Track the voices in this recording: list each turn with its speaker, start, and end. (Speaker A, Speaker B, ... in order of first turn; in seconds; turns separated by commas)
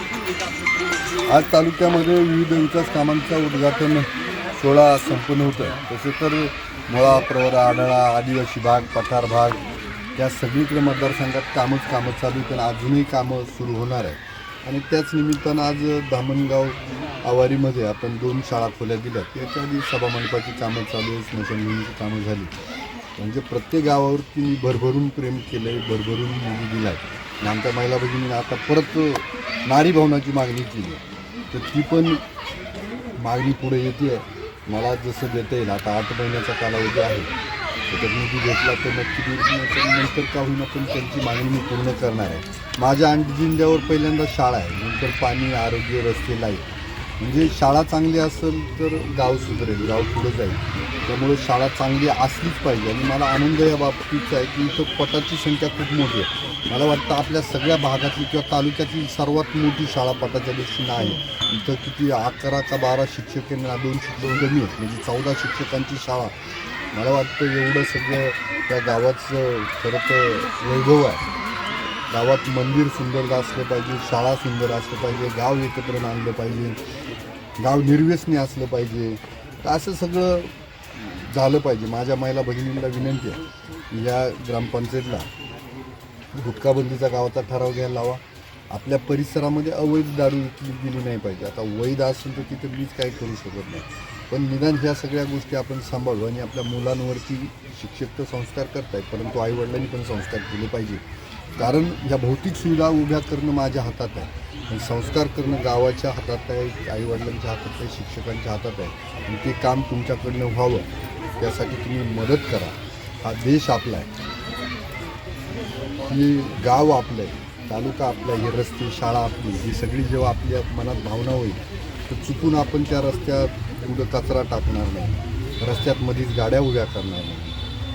Speaker A: 1.3-9.6, Speaker A: 10.2-22.5, Speaker A: 23.2-31.0, Speaker A: 31.5-32.2, Speaker A: 33.2-37.3, Speaker A: 37.9-46.6, Speaker A: 47.2-66.3, Speaker A: 66.9-71.2, Speaker A: 72.1-76.8, Speaker A: 77.6-85.3, Speaker A: 86.3-101.0, Speaker A: 101.5-110.9, Speaker A: 111.4-114.1, Speaker A: 116.1-127.6